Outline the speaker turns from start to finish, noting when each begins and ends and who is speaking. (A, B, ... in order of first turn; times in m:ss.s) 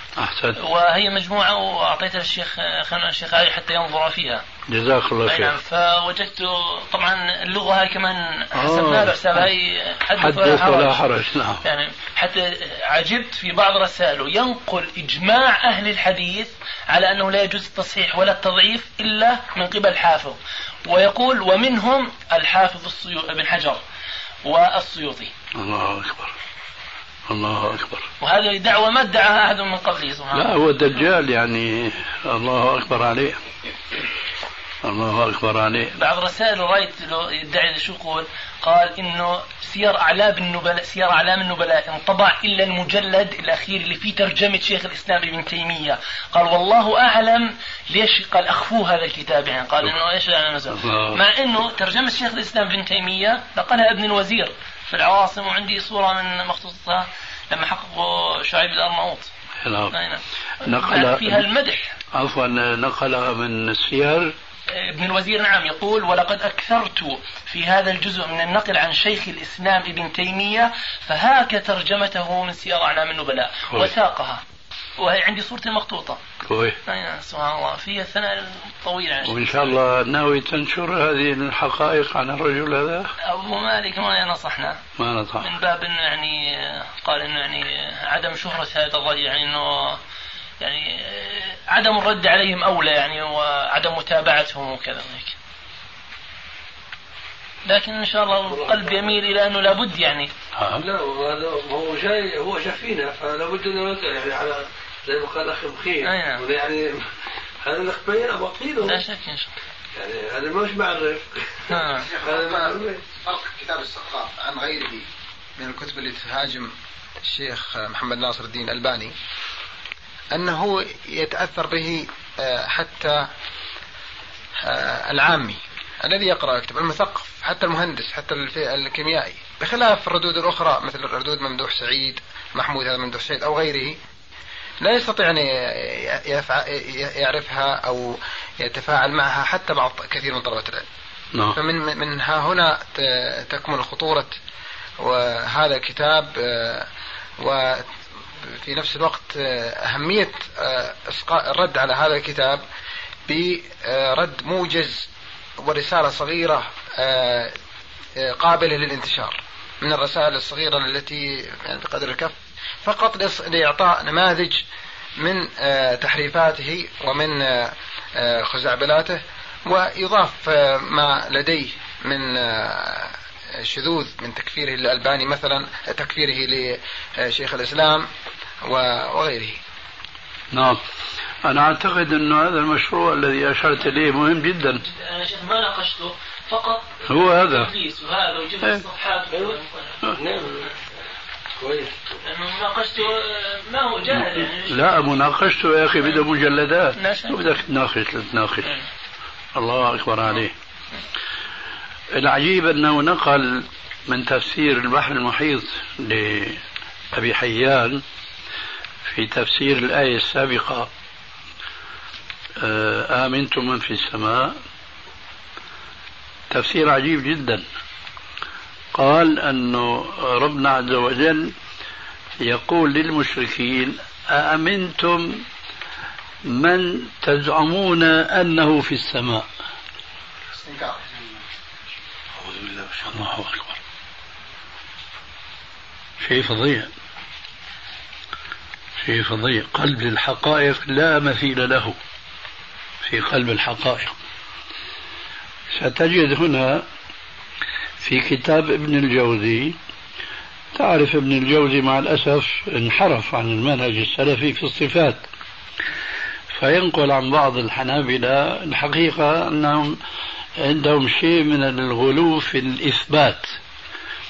0:00.2-0:00.6 A
0:00.6-0:04.4 B
0:04.7-0:05.5 A
0:05.3-0:11.0 B
0:08.5-0:09.5 A
0:10.2-0:11.6 A
0:11.6-0:23.8 B
0:24.4-0:25.3 B
0:25.6-0:26.4 A
0:27.3-0:28.1 A
0:28.2-0:30.6 B
0:30.3-0:33.4 A
0:34.8-0:36.0 A
0:36.0-0:59.3 B
0:50.7-0:51.2 A
0:59.6-1:00.0 A
0:59.9-1:01.9 B
1:00.6-1:01.4 A
1:02.1-1:04.4 A
1:04.7-1:14.4 B
1:15.0-1:16.2 B
1:16.4-1:16.8 A
1:16.9-1:19.8 B
1:19.2-1:23.1 A
1:23.2-1:24.8 B
1:25.0-1:25.5 A
1:25.4-1:30.0 B
1:30.6-1:35.4 B
1:37.7-1:40.3 B
1:38.4-1:39.4 C
1:40.6-1:40.9 A
1:40.8-1:49.0 C
1:46.0-1:46.4 B
1:48.8-1:49.5 B
1:50.0-1:53.0 C
1:51.7-1:52.1 B
1:51.9-1:56.7 D
1:57.2-1:59.1 D
2:00.3-2:03.3 D
2:04.6-2:14.0 D
2:14.8-2:20.8 D
2:21.6-2:24.4 D
2:25.0-2:32.6 D
2:33.3-2:35.1 D
2:35.6-2:37.6 D
2:38.2-2:44.6 D
2:45.2-2:58.1 D
2:58.6-2:59.6 D
3:00.5-3:00.8 A
3:01.4-3:04.8 A
3:04.8-3:10.0 B
3:07.1-3:07.7 A
3:09.3-3:09.6 C
3:10.1-3:10.7 C
3:11.6-3:12.0 C
3:12.2-3:15.2 B
3:14.1-3:18.7 A
3:16.0-3:16.2 B
3:17.0-3:17.4 B
3:19.6-3:20.5 A
3:22.1-3:26.6 A
3:27.1-3:28.0 A
3:29.1-3:30.9 A
3:32.6-3:34.6 A
3:36.5-3:37.6 A
3:38.9-3:41.5 A
3:42.4-3:45.4 A
3:46.4-3:49.5 A
3:50.5-3:51.0 D
3:52.4-3:53.1 C
3:53.0-3:53.8 A
3:56.2-3:56.9 A
3:59.0-4:02.0 A
4:03.0-4:04.2 A
4:05.8-4:06.9 A
4:08.0-4:09.8 A
4:10.7-4:15.3 A
4:16.6-4:20.0 A
4:20.6-4:23.6 A